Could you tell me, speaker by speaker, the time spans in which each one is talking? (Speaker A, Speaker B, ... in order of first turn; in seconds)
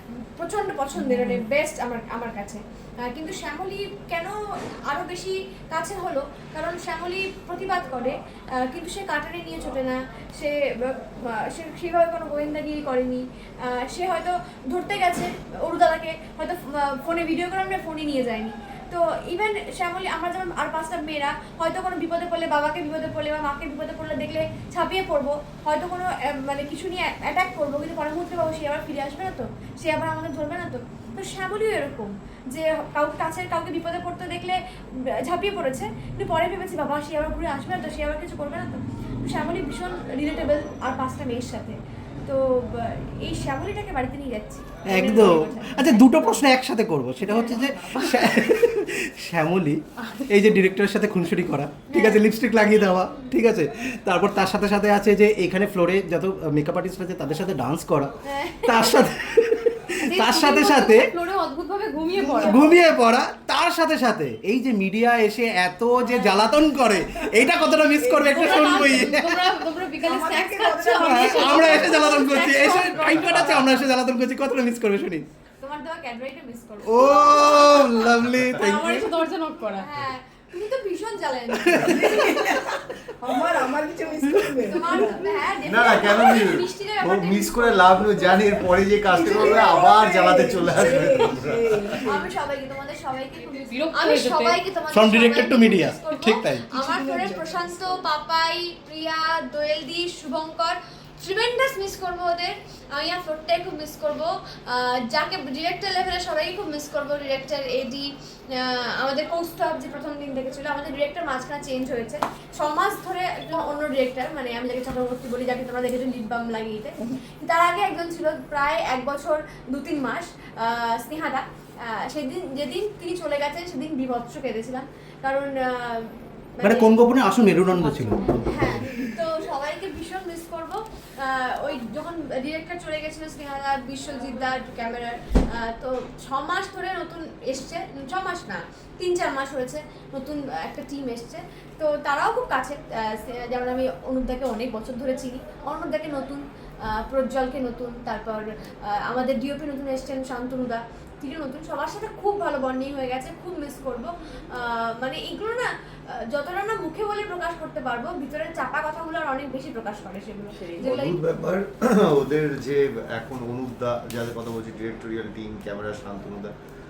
Speaker A: 0.3-46.4, 51.9-52.3, 58.2-59.1, 66.0-66.5, 75.6-78.2, 79.8-82.6, 84.6-89.8, 92.0-161.2
Speaker B: 1.0-1.4, 47.3-48.3, 50.0-50.4, 60.1-62.7, 68.2-73.7, 78.6-79.9, 93.7-94.6, 127.9-128.4
Speaker C: 44.9-58.1, 58.7-61.0, 62.4-69.4, 71.0-75.3, 76.8-79.1, 81.6-82.1, 94.9-96.7, 126.6-128.9
Speaker D: 62.2-62.8, 68.0-69.1, 70.0-72.1, 81.9-85.2, 89.1-92.3, 96.7-98.0, 160.6-160.9
Speaker E: 85.6-92.0, 160.8-166.5